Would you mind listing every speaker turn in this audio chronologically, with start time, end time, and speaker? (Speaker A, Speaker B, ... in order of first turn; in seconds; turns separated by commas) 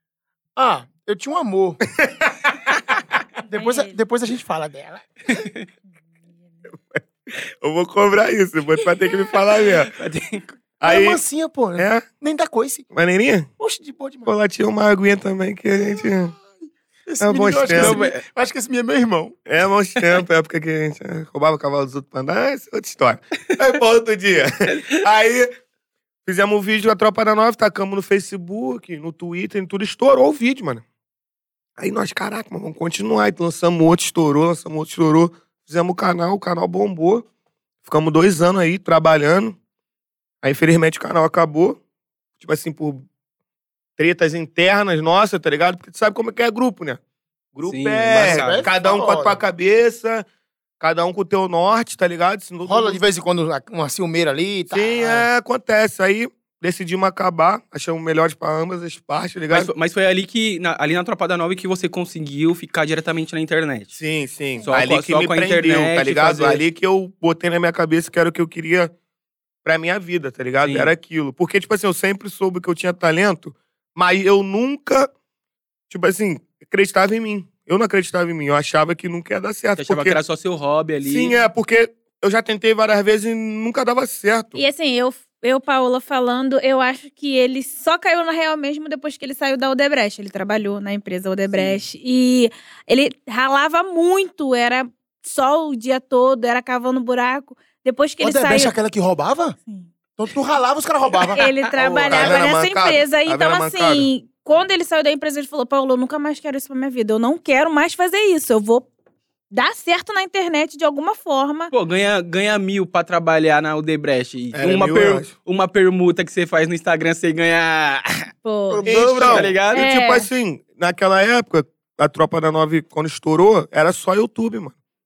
Speaker A: 0.6-1.8, Speaker B: 1.9-2.4, Speaker A: 3.4-5.1, Speaker C: 3.5-3.9, Speaker D: 5.3-5.7, Speaker B: 6.7-9.9, Speaker D: 9.7-10.5, Speaker B: 10.8-11.2, Speaker A: 10.8-12.8, Speaker B: 11.8-12.1, Speaker B: 12.9-13.5, Speaker A: 13.6-14.3, Speaker B: 14.3-16.4, Speaker A: 17.1-19.4, Speaker B: 17.2-18.0, Speaker D: 17.8-18.2, Speaker B: 19.5-25.5, Speaker B: 26.3-30.8, Speaker B: 31.8-37.3, Speaker B: 37.9-39.6, Speaker B: 40.4-41.8, Speaker B: 42.4-43.1, Speaker B: 44.0-47.0, Speaker B: 47.5-50.3, Speaker D: 47.6-48.7, Speaker A: 48.1-49.4, Speaker B: 50.8-53.0, Speaker A: 52.7-55.3, Speaker B: 54.7-59.7, Speaker D: 59.5-64.0, Speaker B: 64.0-68.9, Speaker D: 64.7-66.6, Speaker B: 69.7-75.1, Speaker D: 70.6-70.9, Speaker B: 75.9-80.2, Speaker D: 79.8-81.4, Speaker B: 81.0-84.6, Speaker C: 84.5-98.8, Speaker A: 98.2-99.6, Speaker A: 100.2-101.4, Speaker C: 101.3-108.9, Speaker D: 101.4-102.4, Speaker B: 101.8-104.1, Speaker C: 109.5-111.7, Speaker D: 111.7-118.3, Speaker B: 114.5-115.3, Speaker C: 118.4-118.8, Speaker A: 118.7-119.6, Speaker B: 118.8-124.7, Speaker D: 118.9-119.8, Speaker C: 119.7-120.3